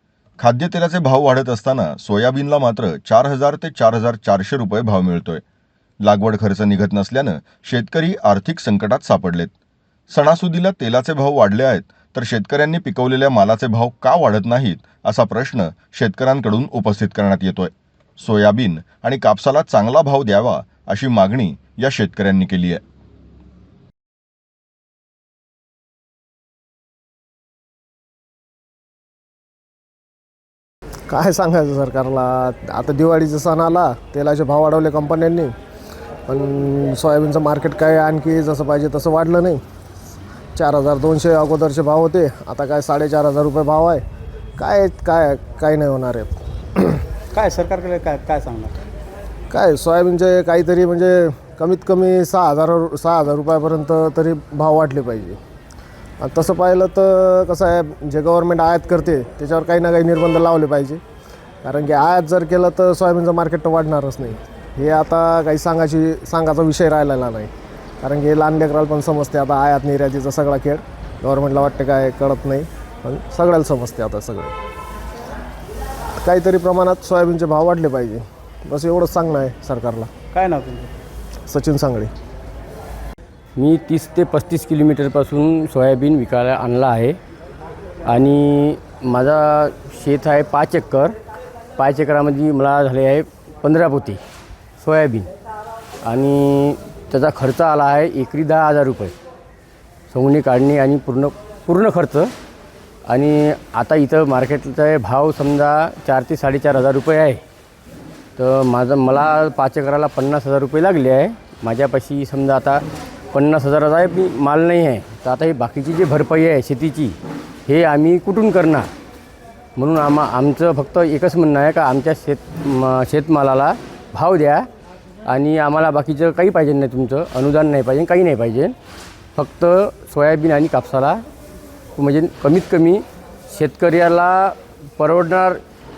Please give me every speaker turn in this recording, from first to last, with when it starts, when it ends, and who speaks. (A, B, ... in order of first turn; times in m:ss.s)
0:00.4-0:05.4 A
0:06.0-0:09.5 A
0:10.1-0:22.8 A
0:31.1-0:35.5 B
0:36.3-0:39.6 B
0:40.6-0:44.0 B
0:44.6-0:47.0 B
0:47.3-0:48.8 C
0:49.5-0:55.4 B
0:56.2-1:01.0 B
1:01.6-1:07.5 B
1:08.0-1:14.5 B
1:16.2-1:20.1 B
1:20.3-1:20.9 C
1:21.5-1:22.1 B
1:23.6-1:27.2 D
1:28.0-1:31.2 D
1:31.8-1:34.2 D
1:34.8-1:35.3 D
1:36.0-1:39.1 D
1:40.1-1:42.3 D
1:43.1-1:47.4 D
1:48.4-1:58.9 D
1:59.8-2:04.7 D
2:05.2-2:08.8 D
2:09.4-2:11.2 D
2:12.0-2:15.6 D